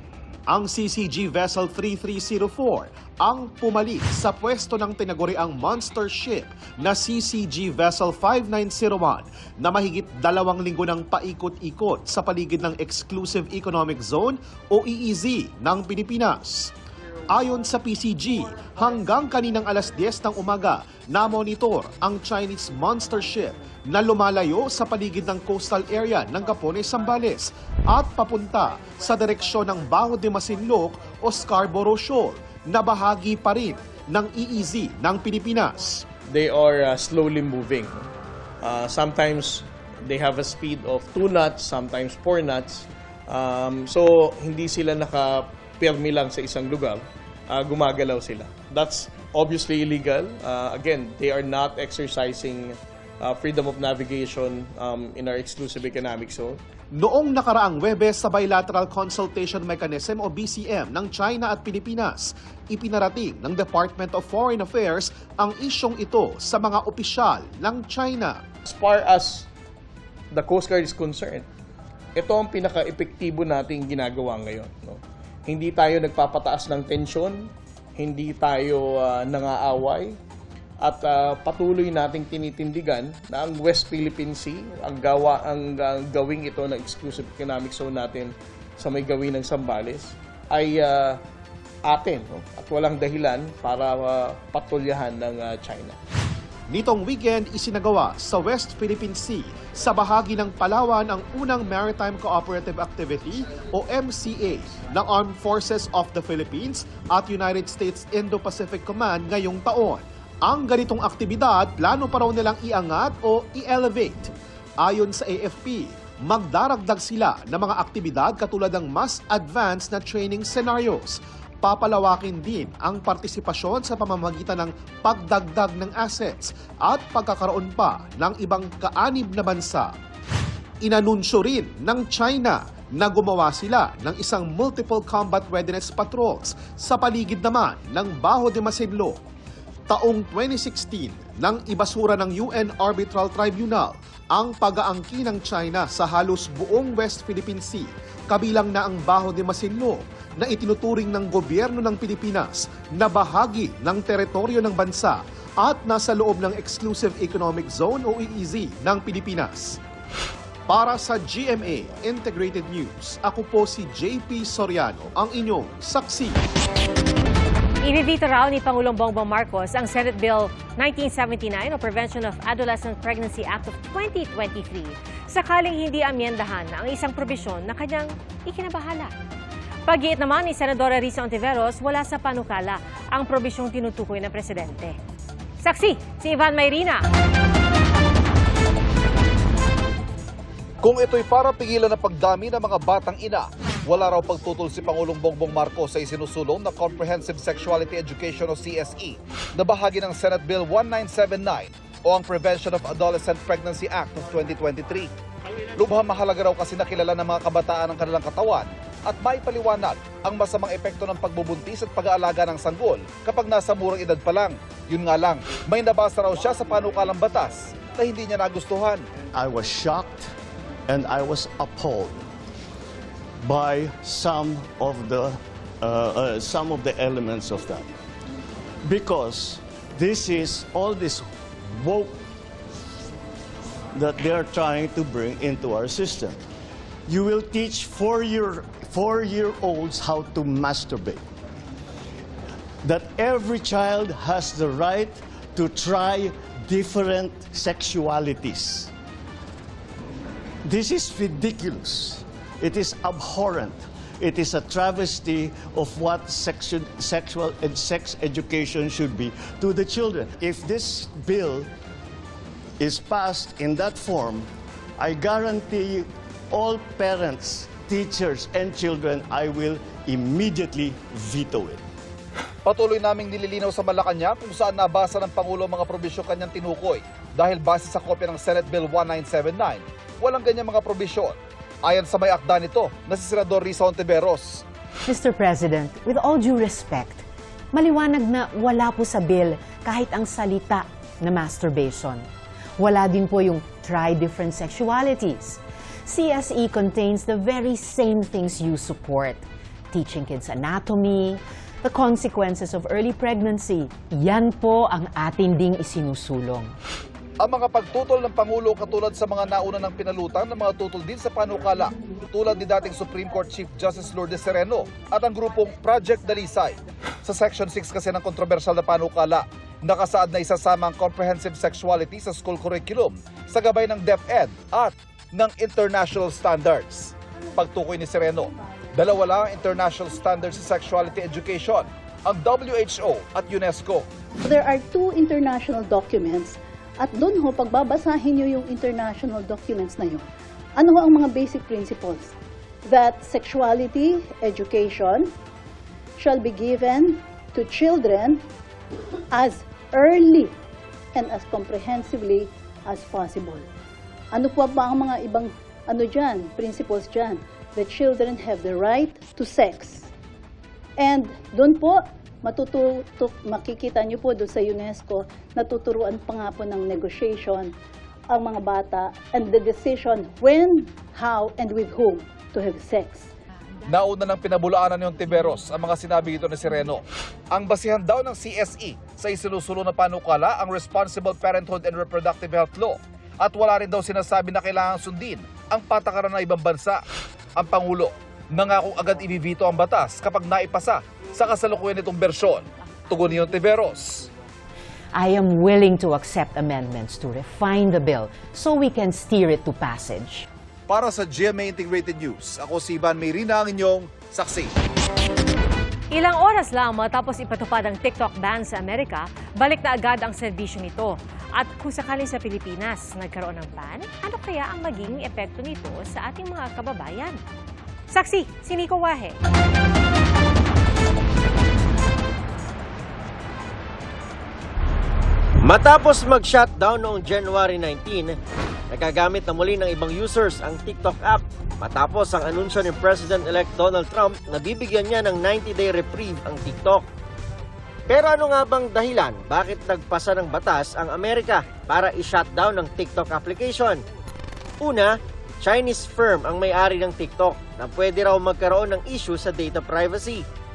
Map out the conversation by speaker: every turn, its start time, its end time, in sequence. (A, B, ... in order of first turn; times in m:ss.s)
0:00.5-0:16.7 A
0:17.3-0:36.0 A
0:36.3-0:38.1 B
0:38.6-0:56.6 B
0:57.0-1:08.4 A
1:08.7-1:09.5 B
1:10.3-1:11.5 B
1:12.2-1:20.2 B
1:20.8-1:31.2 B
1:31.9-1:36.0 B
1:36.7-2:09.9 A
2:10.8-2:19.2 A
2:19.9-2:39.8 A
2:40.7-2:46.4 A
2:47.8-2:59.1 C
2:59.9-3:05.0 C
3:05.6-3:07.0 C
3:10.8-3:25.1 D
3:25.8-3:39.0 D
3:39.3-3:40.3 E
3:40.9-3:42.2 E
3:43.4-3:47.9 E
3:48.8-3:52.2 E
3:53.9-3:56.4 E
3:57.1-4:01.2 E
4:02.8-4:08.9 E
4:10.6-4:21.7 E
4:22.8-4:31.8 E
4:32.7-4:44.6 D
4:45.0-4:52.3 F
4:52.8-5:06.7 F
5:07.4-5:34.1 D
5:34.4-5:42.3 G
5:42.9-5:45.3 G
5:46.2-5:48.4 G
5:49.3-5:50.5 G
5:51.2-5:53.7 G
5:54.3-6:00.1 G
6:01.0-6:07.7 G
6:08.3-6:13.3 G
6:13.9-6:27.0 D
6:27.6-6:34.3 D
6:35.1-6:40.5 F
6:40.9-6:44.7 D
6:46.1-6:57.4 C
6:58.1-6:59.4 C
7:05.7-7:08.4 H
7:08.9-7:17.0 H
7:18.1-7:24.0 H
7:24.8-7:30.4 H